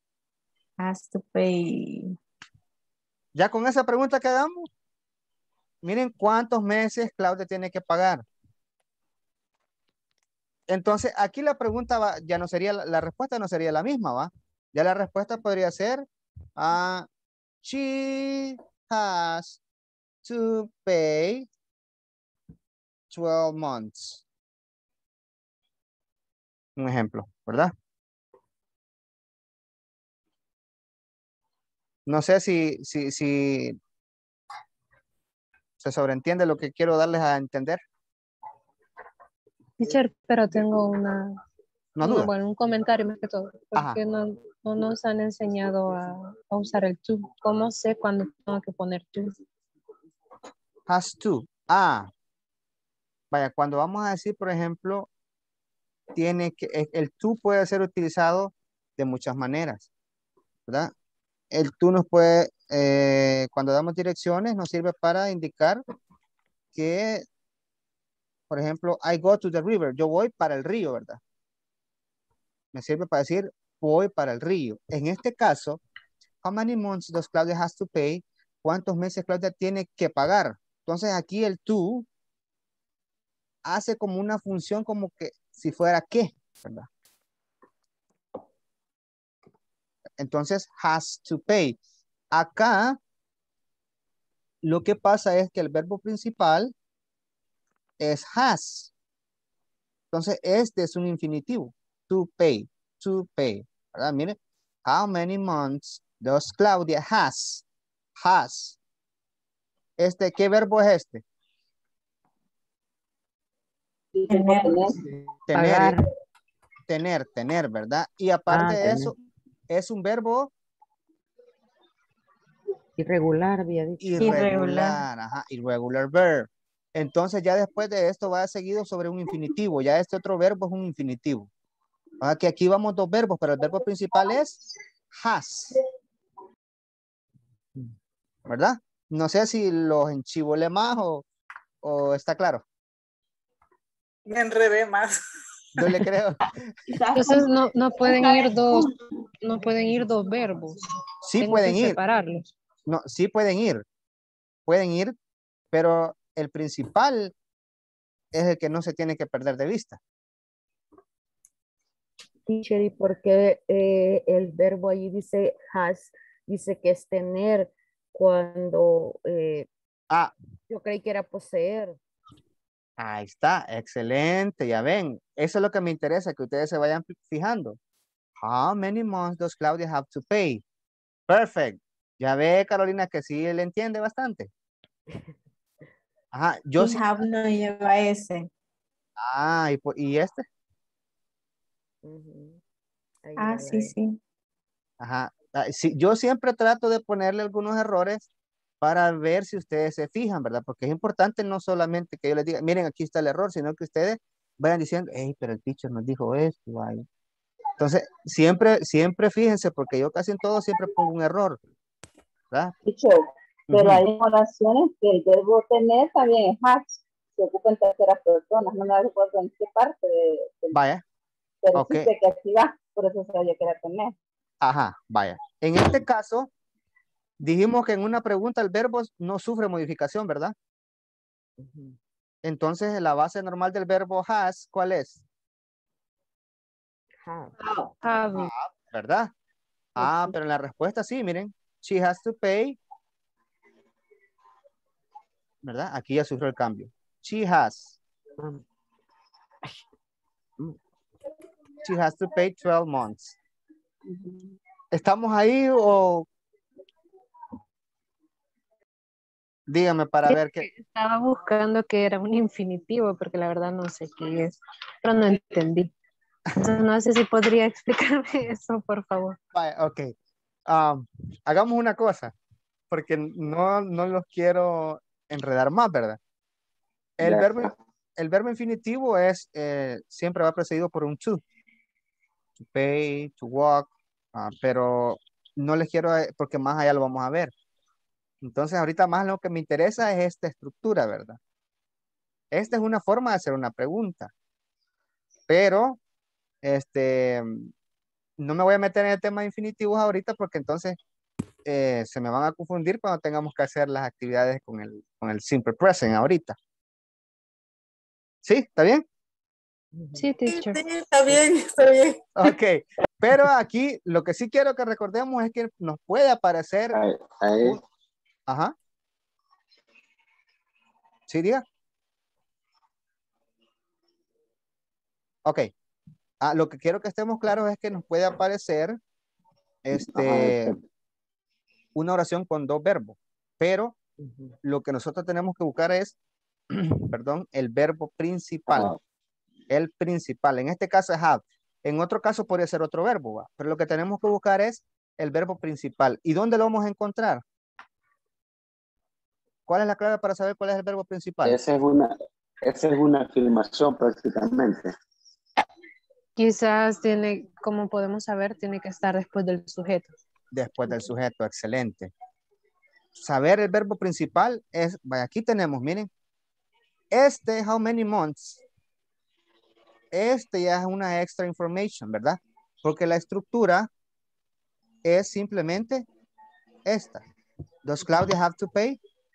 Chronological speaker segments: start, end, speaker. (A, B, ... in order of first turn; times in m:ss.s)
0:00.8-0:02.1 A
0:03.4-0:04.7 B
0:05.8-0:08.2 B
0:10.7-0:16.0 B
0:16.6-0:17.1 B
0:17.6-0:19.6 B
0:20.2-0:21.5 B
0:23.1-0:24.2 B
0:26.8-0:27.7 B
0:32.1-0:33.8 B
0:35.8-0:37.8 B
0:39.8-0:41.3 C
0:42.0-0:42.3 B
0:42.0-0:49.3 C
0:50.9-0:52.1 B
0:53.3-0:55.1 B
0:56.1-0:59.9 B
1:00.7-1:00.9 B
1:01.5-1:05.8 B
1:06.7-1:07.2 B
1:08.5-1:11.2 B
1:12.7-1:15.8 B
1:16.4-1:22.1 B
1:23.6-1:26.9 B
1:30.2-1:31.8 B
1:32.3-1:33.0 B
1:34.6-1:36.7 B
1:38.0-1:38.9 B
1:40.1-1:47.6 B
1:48.2-1:48.8 B
1:50.0-1:51.2 B
1:54.1-1:54.9 D
1:54.3-1:54.9 A
1:55.5-1:56.0 B
1:55.5-1:56.0 E
1:56.9-1:59.2 B
1:58.5-1:59.1 E
1:59.7-2:00.5 B
2:03.0-2:04.5 E
2:04.0-2:11.5 B
2:04.2-2:05.0 A
2:12.2-2:14.6 B
2:15.1-2:15.8 B
2:18.4-2:21.2 B
2:21.8-2:22.6 B
2:24.3-2:25.1 F
2:25.8-2:26.7 B
2:27.1-2:28.9 C
2:29.4-2:30.8 C
2:31.2-2:32.0 B
2:31.4-2:32.5 C
2:32.9-2:33.8 B
2:34.7-2:35.1 B
2:35.7-2:37.3 B
2:38.3-2:40.0 B
2:42.5-2:49.7 E
2:50.7-2:52.0 E
2:53.0-2:57.8 B
2:58.4-3:00.6 B
3:01.3-3:04.5 B
3:06.3-3:07.0 B
3:06.8-3:08.5 A
3:09.2-3:10.4 B
3:12.0-3:12.6 E
3:13.2-3:13.9 E
3:13.4-3:14.1 A
3:15.0-3:18.2 B
3:18.8-3:27.0 B
3:27.8-3:31.6 B
3:32.8-3:40.8 D
3:33.7-3:34.0 B
3:40.7-3:41.0 B
3:41.6-3:44.1 D
3:41.7-3:42.1 B
3:44.6-3:46.5 B
3:47.4-3:50.5 B
3:51.6-3:52.0 E
3:52.4-3:55.2 B
3:57.2-3:57.5 E
3:57.7-3:58.2 A
3:58.4-3:59.3 B
4:00.0-4:02.8 B
4:00.0-4:00.3 E
4:05.6-4:08.0 B
4:08.4-4:08.6 E
4:11.8-4:13.4 B
4:14.1-4:14.5 D
4:14.9-4:16.2 B
4:19.7-4:20.6 B
4:20.2-4:25.9 C
4:26.6-4:29.4 C
4:29.5-4:30.1 B
4:30.7-4:32.3 B
4:32.9-4:36.2 B
4:37.2-4:41.4 B
4:37.2-4:37.7 G
4:42.6-4:47.5 B
4:48.4-4:51.4 B
4:52.5-4:54.3 B
4:55.5-4:56.0 B
4:56.6-4:57.7 B
4:58.4-5:01.0 B
5:01.6-5:06.5 B
5:08.4-5:09.0 B
5:10.0-5:10.3 E
5:10.2-5:10.8 C
5:10.4-5:12.2 F
5:12.4-5:17.0 B
5:16.9-5:17.8 G
5:18.5-5:18.7 B
5:21.3-5:21.6 B
5:25.4-5:25.7 B
5:26.4-5:29.0 B
5:29.8-5:30.8 B
5:30.1-5:30.8 G
5:31.9-5:33.9 B
5:34.2-5:34.6 E
5:34.6-5:36.1 B
5:36.7-5:38.9 B
5:38.7-5:39.0 G
5:39.7-5:47.4 B
5:49.7-5:51.6 B
5:51.4-5:52.1 G
5:52.6-5:54.9 G
5:56.4-6:00.1 C
6:00.5-6:02.1 B
6:03.2-6:06.1 B
6:07.1-6:08.6 B
6:10.1-6:13.9 B
6:15.0-6:16.0 B
6:16.8-6:17.2 B
6:17.8-6:19.0 B